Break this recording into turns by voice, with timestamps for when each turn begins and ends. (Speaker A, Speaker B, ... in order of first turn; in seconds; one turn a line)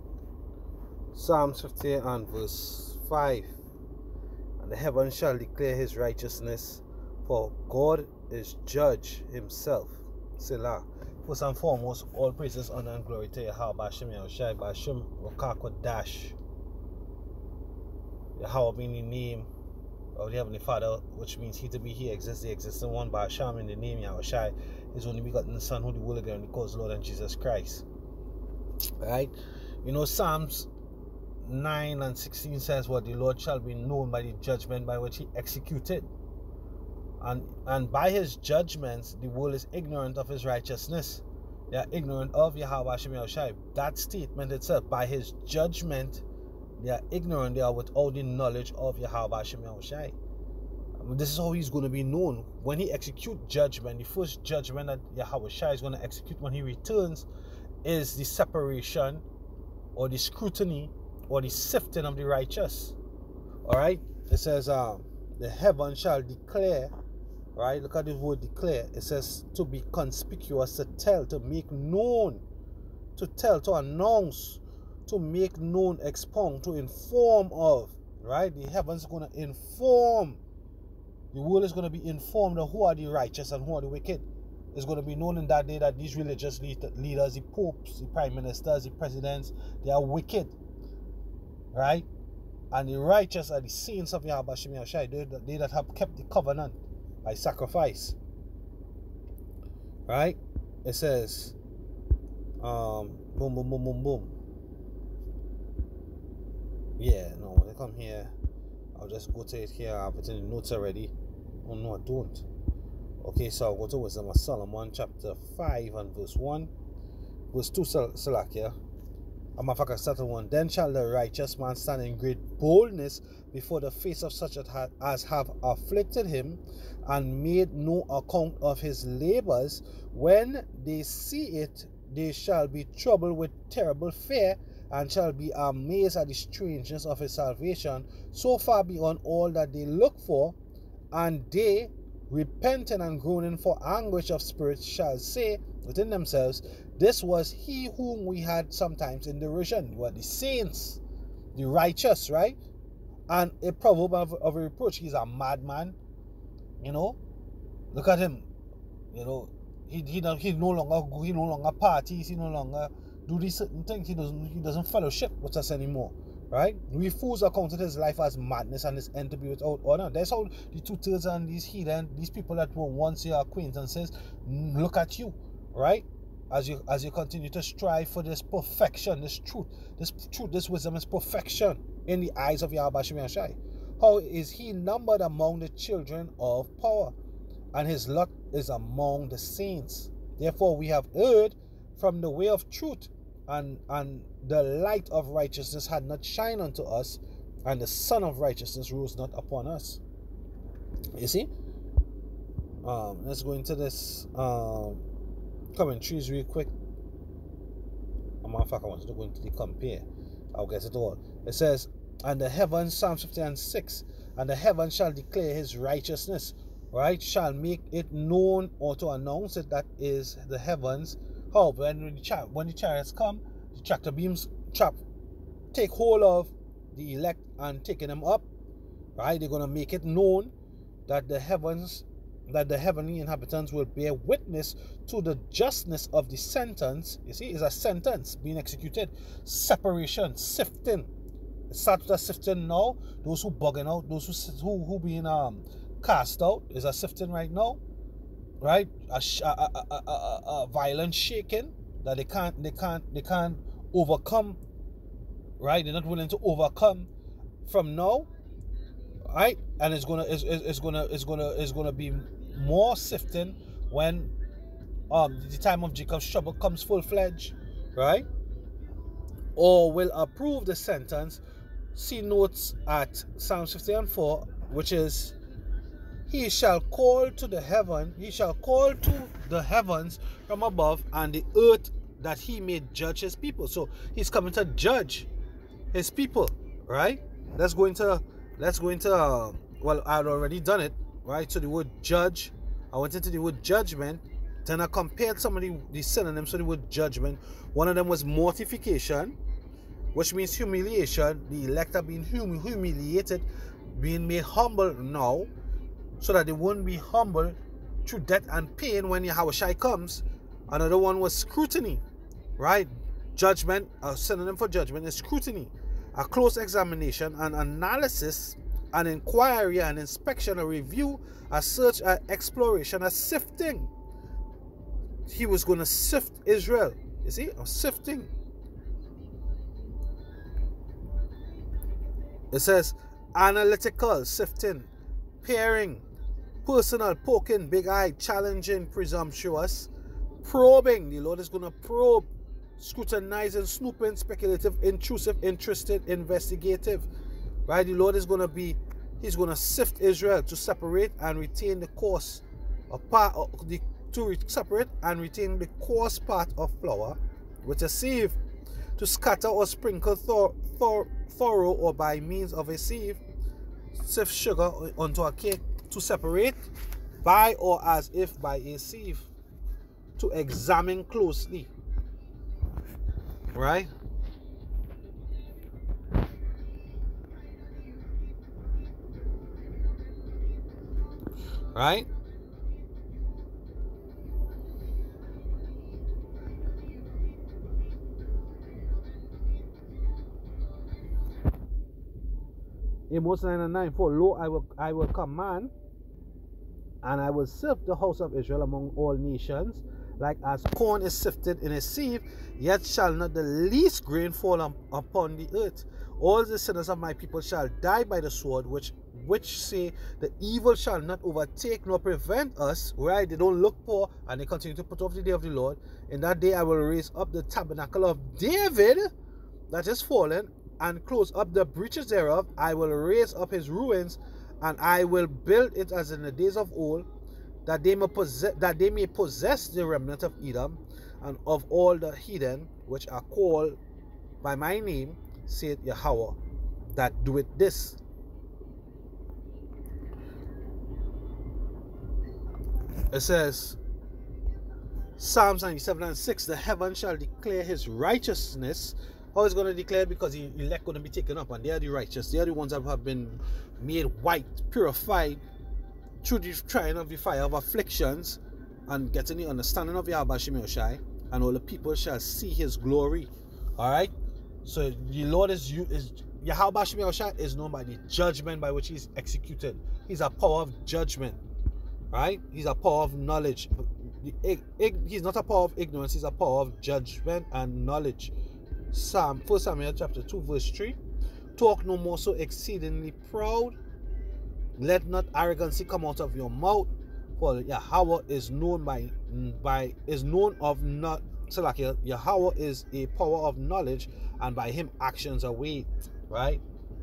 Speaker A: 1.1-3.5
Speaker A: 4.6-16.4
Speaker A: 18.4-19.5
Speaker A: 20.1-27.9
Speaker A: 29.0-30.7
Speaker A: 31.4-36.1
Speaker A: 37.2-46.2
Speaker A: 46.8-50.1
Speaker A: 51.0-57.3
Speaker A: 57.8-59.2
Speaker A: 60.0-63.0
Speaker A: 63.6-66.9
Speaker A: 67.5-72.4
Speaker A: 73.2-80.4
Speaker A: 81.3-90.5
Speaker A: 91.7-92.1
Speaker A: 92.7-98.2
Speaker A: 100.1-101.5
Speaker A: 102.6-104.3
Speaker A: 107.0-108.3
Speaker A: 108.9-112.5
Speaker A: 113.2-116.7
Speaker A: 117.5-118.7
Speaker A: 119.6-140.6
Speaker A: 141.1-151.0
Speaker A: 151.5-152.6
Speaker A: 153.3-155.9
Speaker A: 156.8-157.2
Speaker A: 157.9-158.5
Speaker A: 159.1-187.1
Speaker A: 187.7-200.0
Speaker A: 201.1-201.5
Speaker A: 202.8-205.0
Speaker A: 205.7-206.7
Speaker A: 208.4-225.0
Speaker A: 225.7-228.4
Speaker A: 229.2-230.5
Speaker A: 231.1-241.1
Speaker A: 241.7-247.8
Speaker A: 248.6-254.6
Speaker A: 255.6-257.1
Speaker A: 257.6-258.3
Speaker A: 259.3-264.3
Speaker A: 265.1-268.3
Speaker A: 269.6-271.4
Speaker A: 271.9-275.4
Speaker A: 276.3-285.3
Speaker A: 285.9-299.4
Speaker A: 300.1-305.5
Speaker A: 306.2-312.0
Speaker A: 312.6-323.9
Speaker A: 325.2-328.3
Speaker A: 332.5-334.9
Speaker A: 335.4-336.0
Speaker A: 336.6-339.9
Speaker A: 340.4-342.3
Speaker A: 342.8-347.1
Speaker A: 347.7-358.4
Speaker A: 359.0-363.2
Speaker A: 363.9-366.6
Speaker A: 367.2-369.3
Speaker A: 370.2-371.7
Speaker A: 373.5-373.9
Speaker A: 381.7-382.1
Speaker A: 393.1-395.7
Speaker A: 397.0-419.1
Speaker A: 419.7-427.1
Speaker A: 427.6-433.8
Speaker A: 434.4-436.4
Speaker A: 436.9-438.0
Speaker A: 443.1-443.8
Speaker A: 445.2-455.4
Speaker A: 456.2-464.1
Speaker A: 464.6-471.4
Speaker A: 472.1-478.3
Speaker A: 478.9-481.0
Speaker A: 481.6-483.8
Speaker A: 484.8-496.6